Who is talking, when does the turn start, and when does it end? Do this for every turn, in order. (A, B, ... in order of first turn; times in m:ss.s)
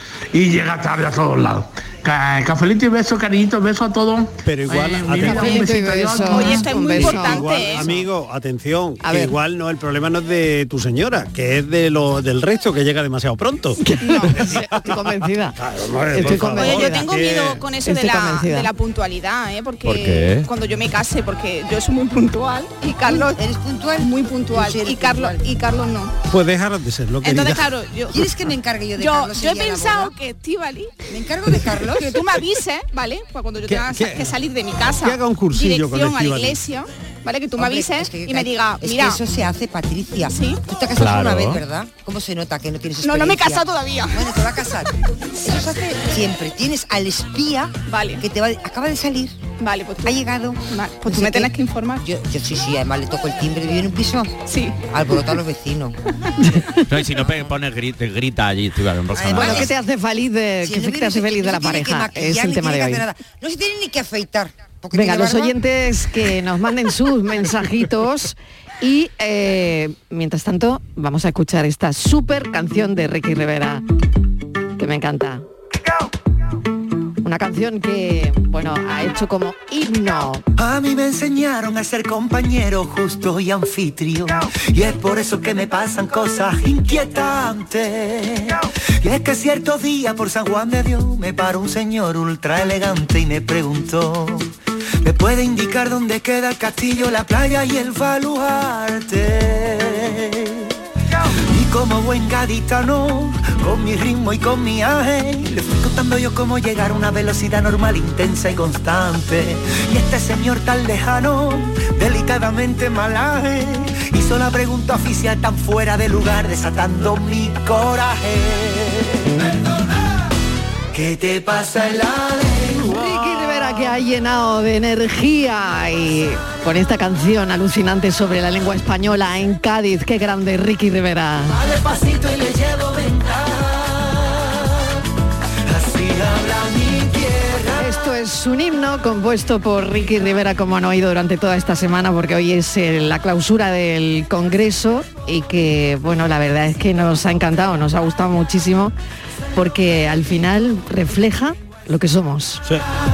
0:00.3-0:06.4 A
0:04.4-0:15.0 B
0:04.7-0:07.9 C
0:06.2-0:07.9 D
0:09.0-0:09.4 C
0:13.8-0:15.6 C
0:14.0-0:14.4 D
0:15.6-0:17.6 B
0:16.1-0:17.1 C
0:16.4-0:23.4 D
0:17.8-0:18.7 C
0:19.8-0:20.5 E
0:23.0-0:25.4 F
0:24.0-0:26.1 D
0:26.3-0:27.7 B
0:27.2-0:28.3 D
0:28.1-0:30.1 F
0:29.0-0:31.0 D
0:31.1-0:32.2 F
0:32.0-0:39.2 D
0:33.7-0:34.4 B
0:34.9-0:36.6 B
0:37.6-0:49.4 F
0:40.3-0:40.6 D
0:41.0-0:41.6 E
0:43.0-0:44.3 D
0:47.9-0:48.2 D
0:49.6-0:52.0 D
0:50.0-0:54.4 F
0:54.5-0:54.8 D
0:54.9-0:56.0 F
0:56.4-0:56.8 C
0:56.9-0:59.7 E
0:59.1-0:59.7 F
0:59.3-1:03.0 C
1:00.6-1:05.6 F
1:04.9-1:13.8 C
1:14.8-1:15.4 C
1:17.2-1:20.4 C
1:20.6-1:34.5 G
1:35.0-1:40.7 G
1:41.5-1:59.5 G
2:00.9-2:03.0 G
2:02.8-2:11.6 C
2:11.5-2:14.8 G
2:15.7-2:18.0 G
2:17.8-2:28.9 C
2:29.6-2:32.6 C